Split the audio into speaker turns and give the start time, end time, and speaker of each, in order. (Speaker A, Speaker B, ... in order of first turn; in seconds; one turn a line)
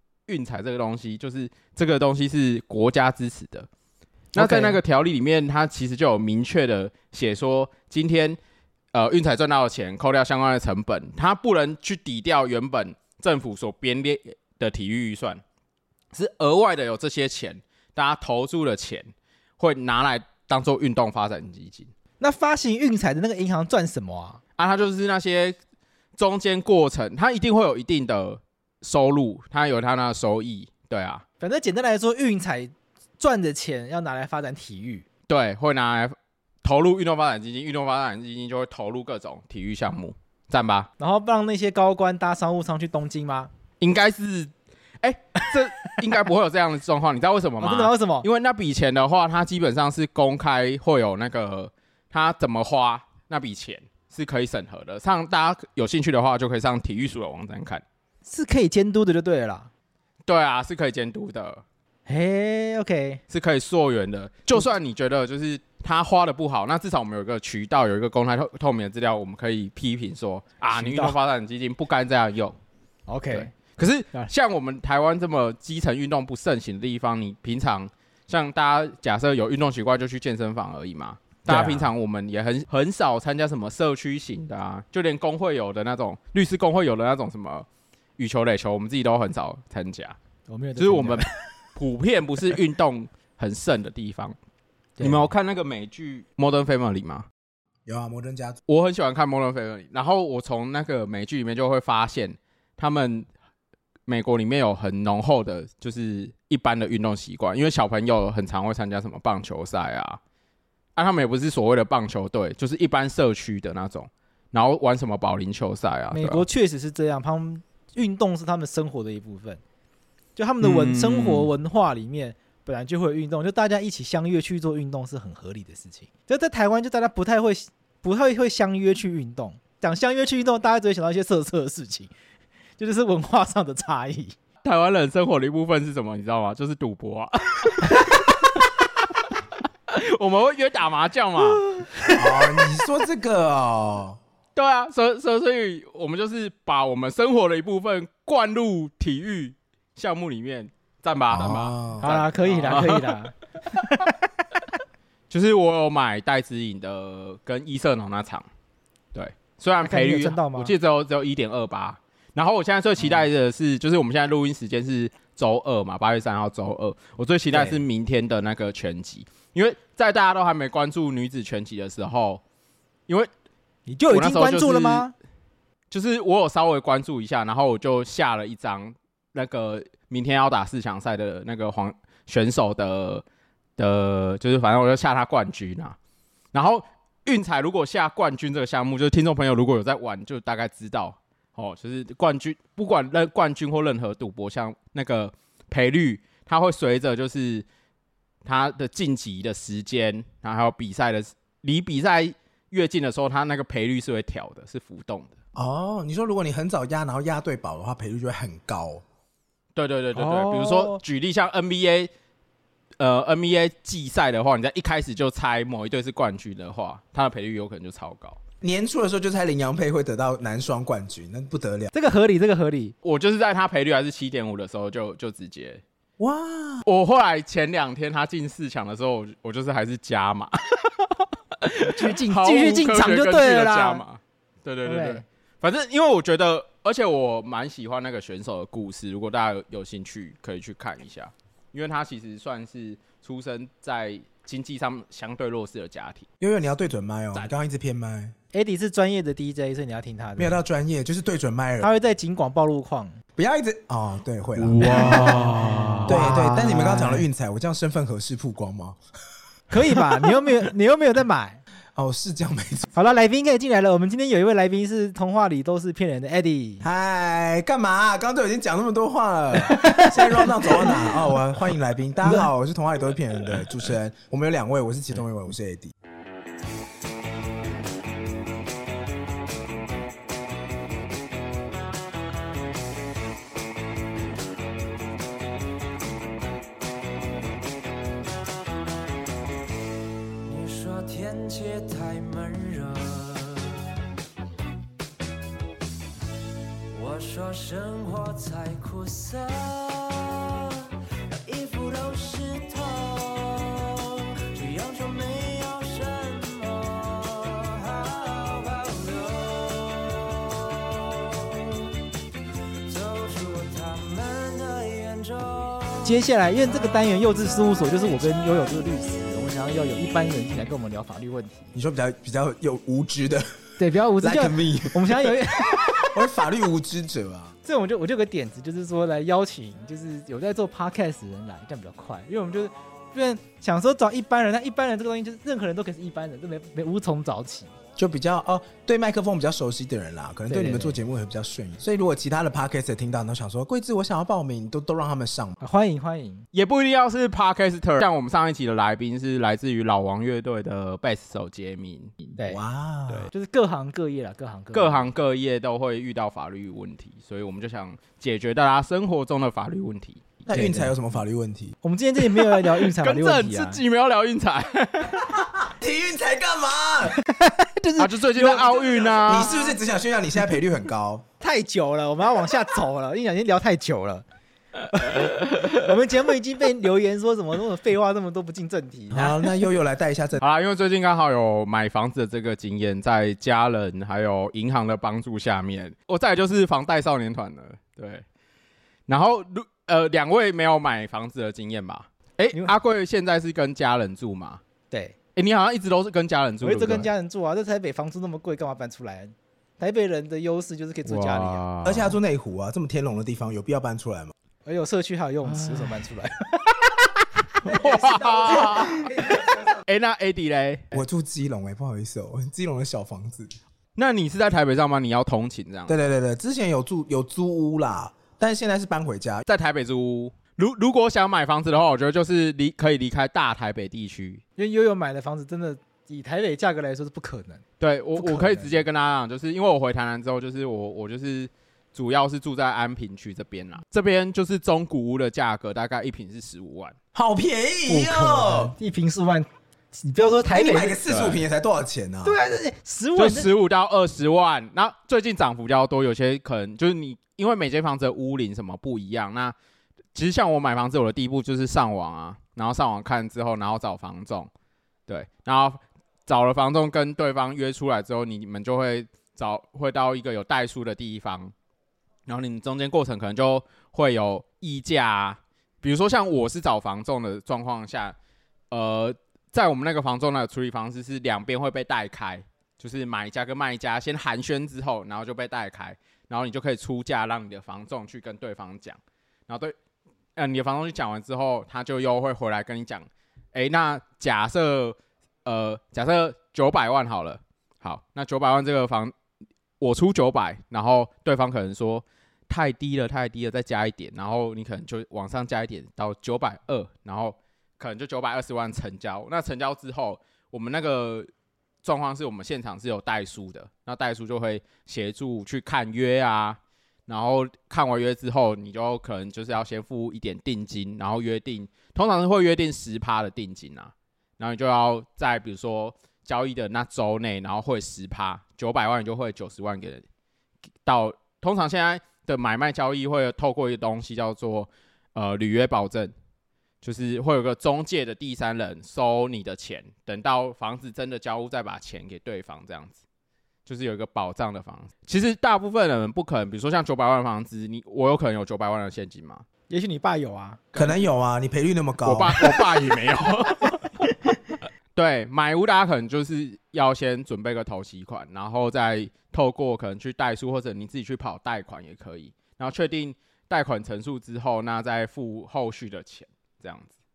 Speaker A: 0.3-3.7
Speaker A: 4.3-8.4
Speaker B: 4.3-4.8
Speaker A: 8.9-15.4
Speaker A: 16.1-21.9
Speaker B: 22.2-24.4
Speaker A: 24.6-25.6
Speaker A: 26.2-31.2
Speaker B: 31.4-35.1
Speaker A: 35.3-40.9
Speaker B: 41.0-43.5
Speaker A: 43.8-57.8
Speaker B: 47.6-48.3
Speaker B: 58.2-59.7
Speaker A: 60.3-61.6
Speaker B: 62.1-63.2
Speaker A: 63.3-72.6
Speaker B: 70.7-71.2
Speaker B: 73.1-73.5
Speaker A: 73.3-90.2
Speaker B: 81.5-81.9
Speaker B: 90.5-91.3
Speaker A: 90.8-94.4
Speaker B: 95.0-95.3
Speaker A: 95.0-97.3
Speaker C: 97.9-98.6
Speaker A: 98.7-103.3
Speaker A: 104.1-110.2
Speaker A: 111.0-116.5
Speaker B: 116.1-119.6
Speaker B: 120.4-132.1
Speaker A: 120.6-121.5
Speaker B: 132.8-134.4
Speaker A: 134.6-141.9
Speaker C: 142.1-144.2
Speaker A: 144.6-153.2
Speaker C: 151.3-152.1
Speaker B: 152.0-154.2
Speaker A: 155.3-158.5
Speaker A: 159.1-172.4
Speaker B: 159.8-160.7
Speaker B: 167.5-167.8
Speaker B: 173.9-175.1
Speaker A: 174.1-175.1
Speaker A: 175.9-183.2
Speaker A: 183.8-186.0
Speaker A: 186.5-197.7
Speaker A: 198.4-205.3
Speaker C: 205.6-209.0
Speaker A: 209.8-212.1
Speaker B: 210.2-211.0
Speaker A: 213.0-218.4
Speaker C: 218.6-221.9
Speaker B: 221.9-222.9
Speaker A: 223.0-225.8
Speaker C: 226.2-226.8
Speaker A: 226.8-246.3
Speaker B: 231.8-234.0
Speaker B: 234.8-235.2
Speaker C: 246.4-248.3
Speaker B: 248.5-250.6
Speaker C: 250.4-251.9
Speaker B: 251.8-253.2
Speaker C: 253.4-255.5
Speaker A: 254.6-256.4
Speaker B: 254.8-257.3
Speaker C: 256.1-259.0
Speaker B: 259.7-261.6
Speaker C: 261.9-262.9
Speaker B: 262.9-266.9
Speaker C: 266.8-275.9
Speaker B: 269.6-271.1
Speaker D: 290.4-293.9
Speaker D: 296.9-311.7
Speaker D: 312.9-316.2
Speaker B: 316.0-321.7
Speaker C: 321.7-323.6
Speaker B: 323.8-326.2
Speaker C: 324.2-327.6
Speaker B: 327.6-337.7
Speaker C: 338.0-345.6
Speaker B: 340.5-341.0
Speaker B: 345.6-346.5
Speaker A: 346.5-352.4
Speaker B: 352.4-355.1
Speaker C: 352.5-353.3
Speaker A: 354.7-360.3
Speaker C: 360.5-361.8
Speaker B: 360.5-361.0
Speaker B: 361.8-363.8
Speaker A: 362.4-365.4
Speaker C: 365.7-367.2
Speaker B: 367.2-369.8
Speaker A: 368.0-369.6
Speaker C: 369.2-371.2
Speaker B: 371.4-374.2
Speaker B: 374.9-379.6
Speaker A: 375.1-375.7
Speaker C: 379.1-380.4
Speaker A: 380.4-388.2
Speaker A: 389.1-394.6
Speaker B: 394.9-395.2
Speaker A: 395.4-397.1
Speaker B: 396.6-401.6
Speaker A: 401.1-402.2
Speaker C: 401.8-404.3
Speaker B: 404.6-409.8
Speaker A: 405.4-406.0
Speaker A: 407.6-411.0
Speaker C: 410.9-413.5
Speaker A: 414.0-415.9
Speaker C: 415.9-419.4
Speaker A: 419.5-424.4
Speaker B: 424.6-427.6
Speaker A: 427.8-437.0
Speaker B: 428.2-428.8
Speaker C: 437.1-438.7
Speaker B: 437.9-441.0
Speaker C: 440.5-442.4
Speaker A: 441.1-441.4
Speaker B: 442.2-443.5
Speaker A: 443.2-449.6
Speaker A: 450.1-454.5
Speaker A: 455.1-461.5
Speaker A: 462.3-468.2
Speaker A: 468.7-479.7
Speaker A: 480.4-489.1
Speaker A: 489.8-501.3
Speaker A: 501.8-520.0
Speaker A: 520.9-526.1
Speaker A: 526.8-533.0
Speaker A: 533.7-539.5
Speaker B: 539.7-540.7
Speaker A: 540.7-541.0
Speaker C: 540.8-542.6
Speaker A: 542.0-543.9
Speaker A: 545.0-556.9